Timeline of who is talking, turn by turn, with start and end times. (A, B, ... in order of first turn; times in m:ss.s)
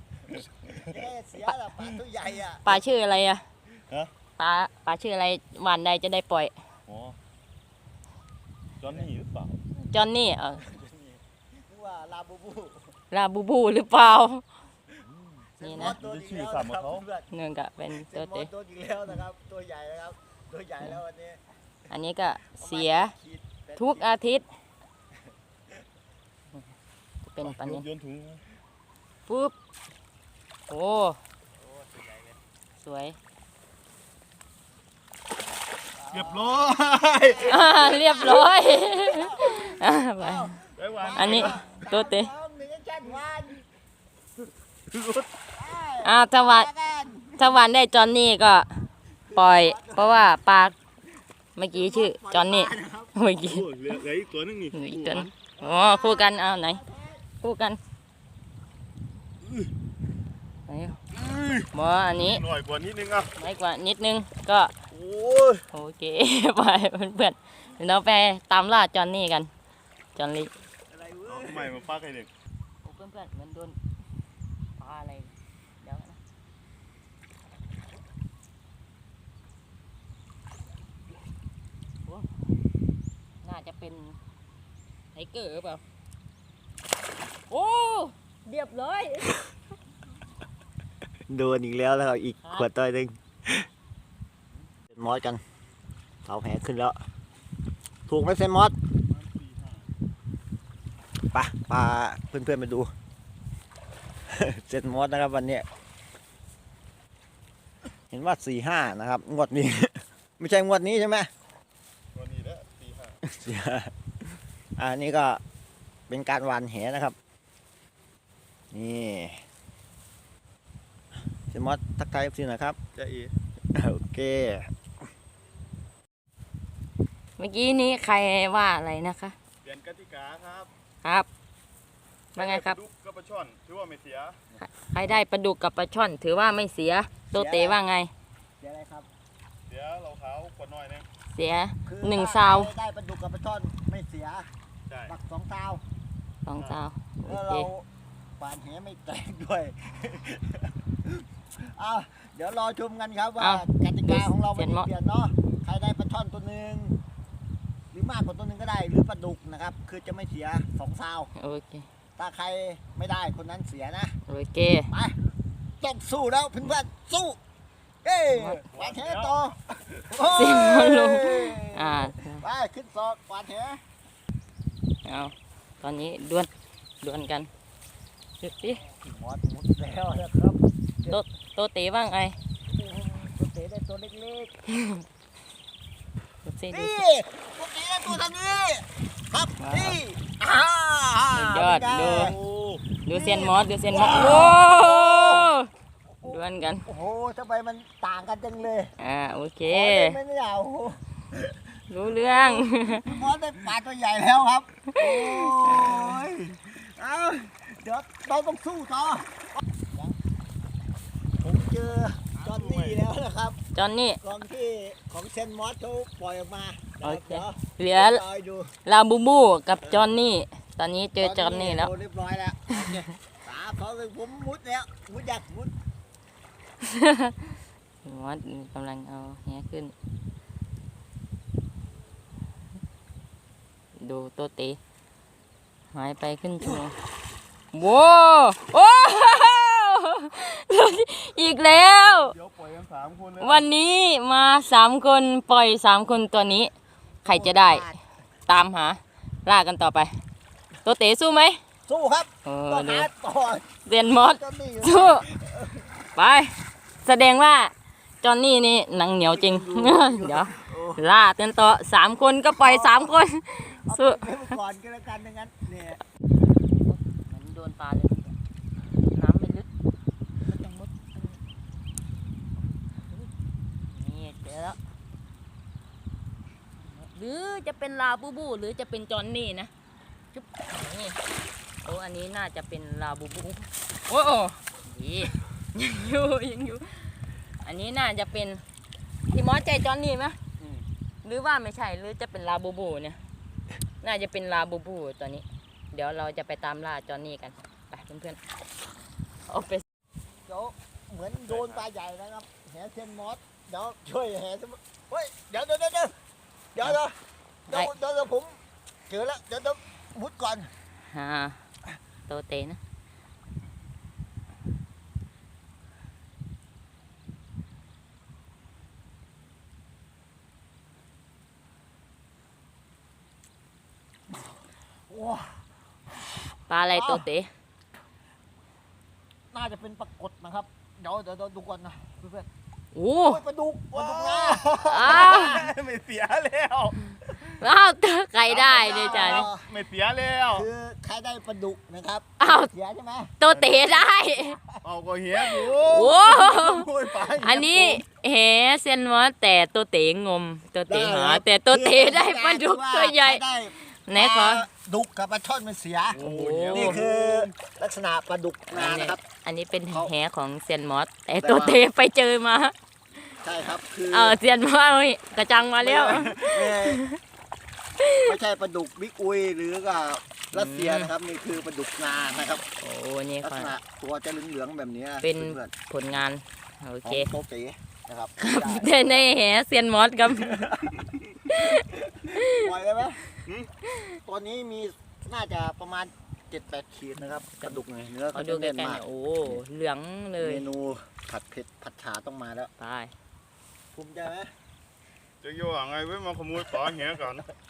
0:00.3-0:01.0 A
0:00.8-0:02.8 B
0:02.6-0:03.4 C
0:04.4-0:06.5 C
0:06.9-0:07.2 A
0:08.8-0:09.6 A
0:09.8-0:10.6 C
0:10.5-0:12.9 B
0:13.1-0:14.4 C
0:15.6-0:17.3 B
0:15.6-0:16.0 C
0:15.7-0:17.1 A
0:17.3-0:18.5 C
0:17.9-0:21.4 B
0:21.9-0:23.1 C
0:22.5-0:24.1 B
0:23.8-0:24.4 C
0:27.2-0:27.8 C
0:27.4-0:28.4 A
0:29.3-0:29.5 C
0:30.7-0:31.2 C
0:31.6-0:32.4 B
0:32.8-0:33.2 C
0:35.9-0:36.7 B
0:36.1-0:37.7 A
0:37.2-0:43.6 B
0:37.4-0:40.5 C
0:40.7-0:41.6 A
0:41.1-0:42.3 C
0:44.9-0:45.3 A
0:45.5-0:47.6 B
0:46.0-0:46.7 C
0:47.3-0:48.7 C
0:49.2-0:50.4 B
0:49.3-0:50.7 C
0:51.6-0:53.7 C
0:51.7-0:53.1 B
0:53.4-0:55.3 A
0:54.7-0:56.8 C
0:55.6-0:57.2 B
0:57.4-0:57.8 C
0:59.4-0:59.7 A
1:00.7-1:01.0 C
1:01.1-1:03.3 A
1:01.7-1:02.4 C
1:03.4-1:04.7 C
1:04.9-1:05.6 A
1:05.7-1:09.5 C
1:10.1-1:10.5 C
1:10.9-1:11.8 B
1:11.3-1:12.3 A
1:12.8-1:13.8 C
1:14.8-1:16.2 C
1:23.4-1:24.2 C
1:25.1-1:25.8 C
1:27.5-1:29.4 C
1:31.3-1:33.7 B
1:32.4-1:32.7 C
1:34.9-1:35.4 B
1:36.2-1:37.0 B
1:38.1-1:38.8 B
1:39.0-1:39.9 A
1:41.3-1:42.9 B
1:44.3-1:45.6 B
1:48.1-1:51.3 B
1:52.1-1:53.2 A
1:53.2-1:53.9 B
1:54.8-1:55.4 B
1:56.1-1:57.2 B
1:58.7-1:59.4 B
2:01.5-2:02.8 B
2:02.9-2:03.3 A
2:03.7-2:04.7 B
2:07.4-2:09.4 C
2:09.6-2:10.7 A
2:11.0-2:11.3 C
2:12.3-2:14.4 A
2:12.4-2:12.8 C
2:14.6-2:18.1 C
2:17.3-2:17.8 B
2:18.6-2:19.1 B
2:19.7-2:21.1 A
2:21.3-2:22.7 C
2:21.8-2:24.5 B
2:25.1-2:25.8 B
2:26.4-2:27.7 C
2:27.2-2:27.9 B
2:28.4-2:37.0 B
2:33.4-2:34.9 C
2:37.9-2:41.3 B
2:41.3-2:41.8 C
2:42.2-2:44.1 B
2:44.3-2:44.9 C
2:44.9-2:45.2 B
2:45.8-2:47.4 B
2:48.0-2:53.8 B
2:48.3-2:48.6 C
2:48.7-2:49.4 A
2:50.2-2:52.4 C
2:55.0-2:56.5 C
2:57.0-2:57.5 C
2:58.4-2:58.8 C
2:58.8-3:01.2 B
3:01.0-3:02.4 C
3:02.7-3:04.5 B
3:04.7-3:05.0 C
3:06.4-3:07.0 C
3:06.7-3:12.4 B
3:09.6-3:10.0 C
3:11.3-3:12.3 C
3:12.0-3:12.8 A
3:13.0-3:15.7 C
3:13.1-3:15.5 B
3:16.2-3:18.9 B
3:16.2-3:16.9 C
3:19.0-3:20.2 C
3:19.6-3:30.2 B
3:21.9-3:23.1 C
3:25.0-3:26.2 C
3:31.4-3:33.6 B
3:32.3-3:33.0 A
3:33.7-3:34.2 C
3:34.2-3:38.7 B
3:37.0-3:38.2 C
3:38.8-3:41.9 C
3:39.8-3:40.2 B
3:41.2-3:45.7 B
3:46.8-3:49.9 C
3:54.0-3:54.8 C
3:55.9-3:57.0 C
3:57.7-4:02.3 C
4:02.2-4:03.6 A
4:03.4-4:06.7 C
4:07.2-4:07.9 C
4:07.2-4:08.0 B
4:08.4-4:10.1 C
4:10.8-4:11.6 C
4:11.8-4:15.9 B
4:12.4-4:13.1 C
4:13.8-4:15.3 C
4:16.1-4:24.6 C
4:19.3-4:21.0 B
4:22.5-4:23.2 B
4:23.7-4:26.0 B
4:26.7-4:28.4 C
4:29.1-4:29.7 C
4:30.4-4:31.4 C
4:33.8-4:34.8 C
4:36.8-4:39.7 C
4:40.3-4:41.2 C
4:41.8-4:48.6 C
4:49.3-4:50.4 C
4:50.6-4:50.8 A
4:51.2-4:53.2 C
4:54.0-4:58.4 C
4:59.5-4:59.8 C
5:00.4-5:06.2 B
5:01.4-5:01.8 A
5:06.7-5:10.7 B
5:11.0-5:11.6 C
5:12.3-5:12.8 C
5:25.1-5:25.6 B
5:26.2-5:26.4 B
5:26.7-5:27.5 C
5:26.9-5:27.2 B
5:29.5-5:32.5 B
5:32.9-5:33.4 C
5:33.2-5:35.7 B
5:33.9-5:37.5 A
5:34.9-5:35.6 C
5:37.6-5:39.5 C
5:38.4-5:39.7 B
5:38.9-5:40.7 A
5:40.5-5:43.3 B
5:42.4-5:42.7 C
5:43.4-5:44.6 C
5:43.5-5:44.0 A
5:43.9-5:44.8 B
5:44.8-5:48.0 A
5:45.7-5:54.6 C
5:50.9-5:59.2 B
5:56.1-5:57.5 A
5:56.2-5:57.0 C
5:58.7-6:02.7 C
6:01.4-6:01.8 B
6:03.4-6:04.4 B
6:04.1-6:07.2 C
6:05.4-6:07.0 B
6:08.0-6:08.3 C
6:08.2-6:12.6 B
6:10.5-6:11.1 C
6:12.8-6:13.7 C
6:13.4-6:15.7 B
6:15.2-6:17.3 C
6:17.0-6:19.2 B
6:18.4-6:20.8 C
6:20.3-6:23.2 B
6:21.4-6:22.7 C
6:23.8-6:24.1 C
6:24.2-6:29.6 B
6:27.5-6:27.8 C
6:28.3-6:30.7 C
6:30.4-6:32.7 B
6:32.8-6:33.1 C
6:33.9-6:34.5 B
6:35.4-6:37.5 A